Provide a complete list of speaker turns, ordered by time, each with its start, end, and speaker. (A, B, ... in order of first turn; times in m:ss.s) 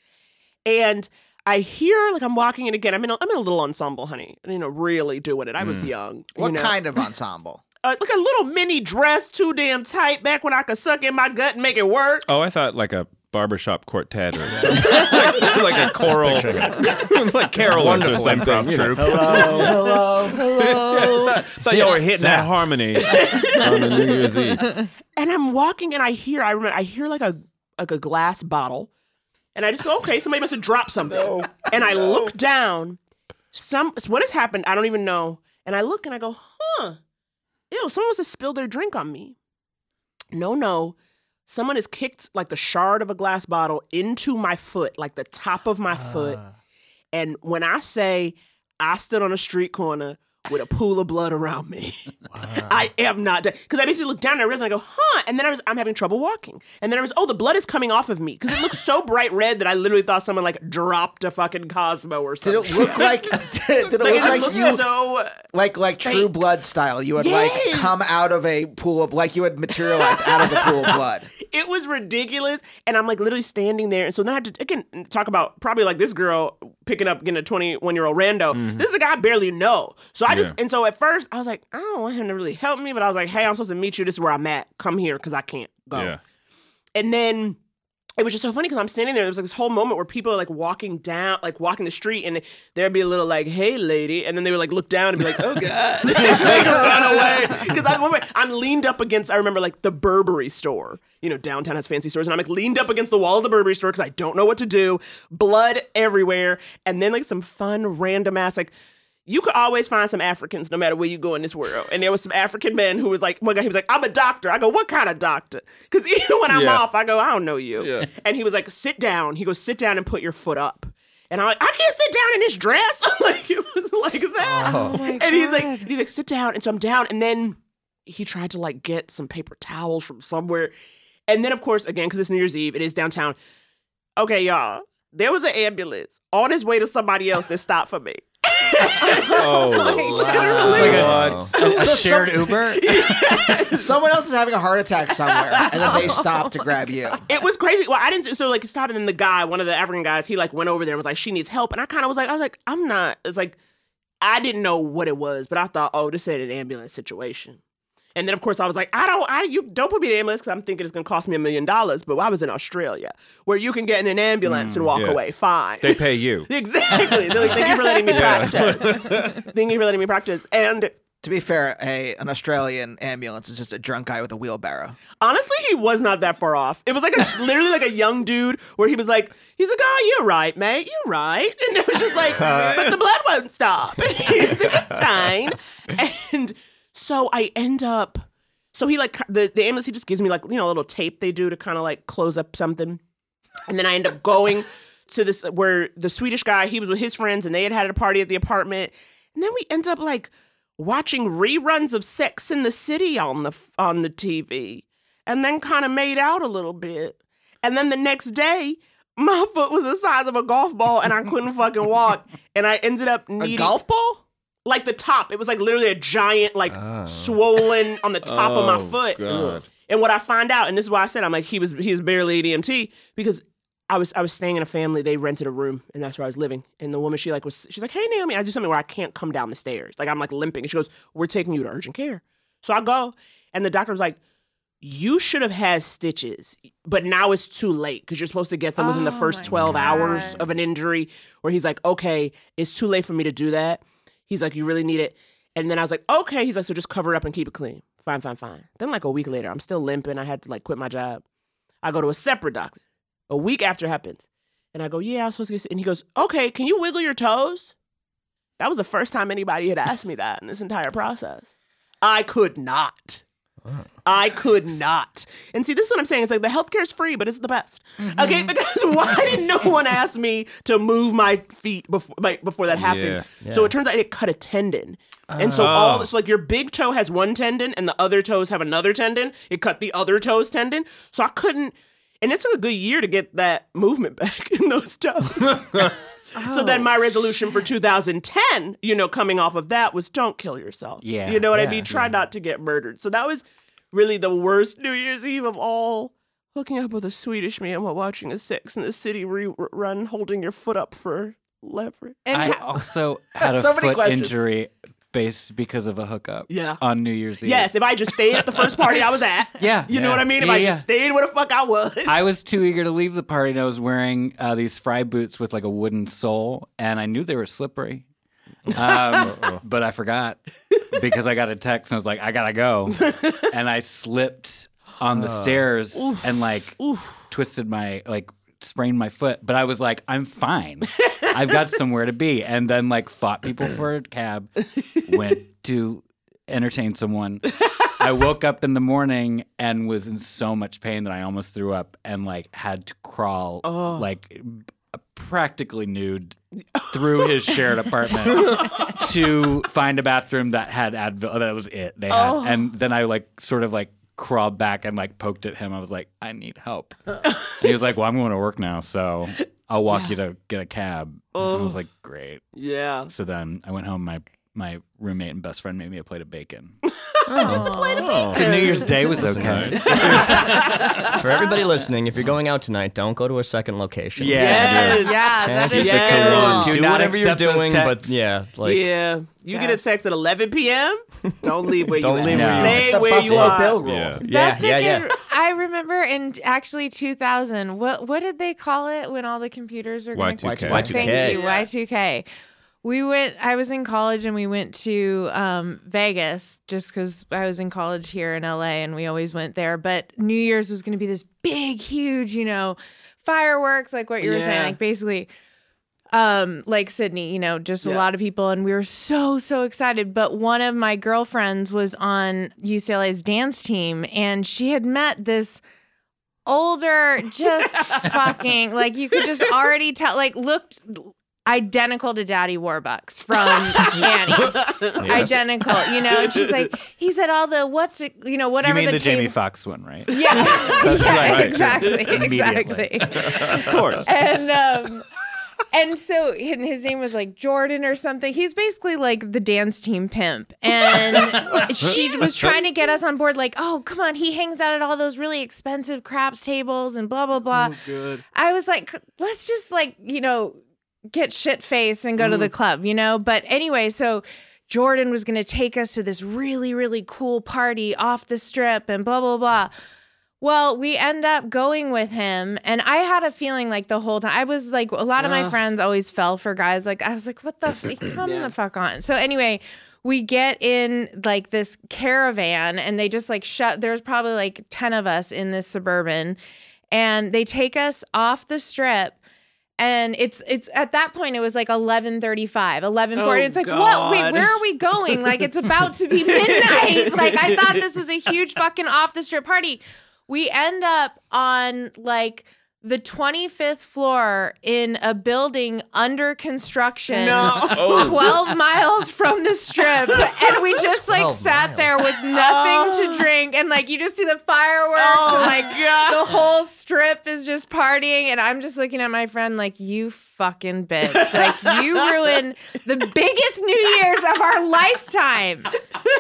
0:00.6-0:06.8 A
0:05.6-0:05.9 B
0:06.4-0:07.6 C
0:07.8-0:12.3 A
0:12.2-0:19.7 B
0:14.5-0:20.0 D
0:14.9-0:15.6 A
0:19.0-0:21.4 C
0:20.7-0:24.8 B
0:21.6-0:22.5 D
0:23.0-0:24.1 A
0:25.2-0:28.9 A
0:29.6-0:33.0 A
0:31.3-0:32.1 B
0:33.5-0:37.0 A
0:37.7-0:39.4 A
0:40.3-0:41.0 A
0:41.5-0:46.4 A
0:47.1-1:05.4 A
1:02.4-1:04.9 C
1:05.5-1:11.3 C
1:06.0-1:06.3 A
1:07.2-1:07.9 A
1:09.8-1:26.1 A
1:18.5-1:18.9 B
1:20.3-1:20.6 B
1:25.9-1:26.2 B
1:27.0-1:27.6 A
1:28.2-1:48.7 A
1:49.3-2:10.7 A
1:56.5-1:56.8 B
1:57.8-1:58.1 B
2:04.4-2:05.0 D
2:04.6-2:05.9 E
2:11.3-2:13.4 A
2:14.2-2:23.9 A
2:19.2-2:20.8 E
2:19.2-2:21.5 B
2:20.2-2:23.3 F
2:20.6-2:21.5 D
2:21.6-2:22.5 C
2:23.6-2:27.2 C
2:25.5-2:26.2 A
2:26.1-2:26.5 E
2:27.3-2:33.6 A
2:34.2-2:37.6 A
2:38.2-2:50.9 A
2:44.4-2:44.9 F
2:44.9-2:45.2 B
2:45.8-2:46.5 B
2:47.1-2:49.4 B
2:51.2-2:55.0 C
2:55.2-3:13.0 A
3:02.4-3:02.9 D
3:04.4-3:04.8 D
3:13.7-3:33.8 A
3:33.4-3:34.2 C
3:34.6-3:54.2 A
3:36.7-3:37.4 D
3:38.2-3:39.7 B
3:39.2-3:39.6 C
3:54.8-4:11.2 A
3:58.8-4:00.5 E
4:11.8-4:17.7 A
4:18.6-4:21.5 A
4:22.0-4:23.2 A
4:24.0-5:02.2 A
4:32.7-4:33.4 B
4:33.4-4:33.7 D
4:35.3-4:35.8 D
4:35.6-4:36.1 B
4:46.4-4:46.9 E
4:51.0-4:52.2 F
5:02.2-5:02.7 E
5:02.3-5:08.7 F
5:03.4-5:04.4 C
5:06.5-5:06.8 A
5:07.4-5:12.3 A
5:09.6-5:10.9 F
5:12.1-5:18.0 F
5:18.7-5:19.6 B
5:18.7-5:20.4 F
5:20.9-5:34.5 F
5:23.0-5:23.4 A
5:25.2-5:25.7 D
5:26.0-5:27.2 A
5:35.0-5:46.4 F
5:43.6-5:44.0 A
5:46.8-5:47.6 A
5:46.9-6:02.4 F
5:48.3-5:48.9 A
5:52.1-5:52.6 A
6:01.4-6:01.8 A
6:02.6-6:03.1 A
6:03.1-6:06.8 F
6:07.3-6:07.7 F
6:07.4-6:07.8 D
6:07.4-6:09.3 A
6:07.5-6:08.1 E
6:08.0-6:08.6 B
6:08.3-6:11.2 F
6:09.1-6:18.9 D
6:09.4-6:09.9 B
6:09.8-6:11.1 A
6:14.2-6:15.1 F
6:14.3-6:16.8 A
6:14.7-6:15.0 B
6:15.0-6:16.7 E
6:15.7-6:18.3 F
6:16.1-6:16.8 B
6:18.6-6:23.8 A
6:19.5-6:19.8 E
6:21.8-6:25.1 D
6:22.2-6:23.0 F
6:22.7-6:24.2 C
6:23.8-6:24.2 B
6:24.3-6:32.2 E
6:30.1-6:31.0 B
6:30.5-6:31.0 C
6:30.5-6:31.4 D
6:31.1-6:31.7 A
6:32.8-6:45.3 E
6:44.2-6:44.8 A
6:46.1-6:55.6 E
6:56.5-7:09.4 E
7:03.8-7:05.2 A
7:05.0-7:05.4 D
7:05.9-7:06.6 A
7:08.6-7:13.7 F
7:10.1-7:15.0 E
7:10.2-7:10.8 A
7:11.0-7:11.6 B
7:13.2-7:14.1 B
7:15.7-7:27.8 E
7:27.6-7:28.2 A
7:28.3-7:30.6 E
7:31.1-7:39.7 E
7:32.2-7:32.5 A
7:40.4-7:56.4 E
7:45.2-7:45.6 A
7:48.2-7:48.5 A
7:56.9-7:59.2 E
7:59.8-8:35.7 E
8:03.2-8:04.6 A
8:05.1-8:05.5 A
8:06.2-8:07.9 A
8:17.1-8:18.2 A
8:17.7-8:18.4 B
8:21.1-8:21.9 D
8:22.3-8:23.3 A
8:25.0-8:26.4 A
8:31.3-8:32.0 A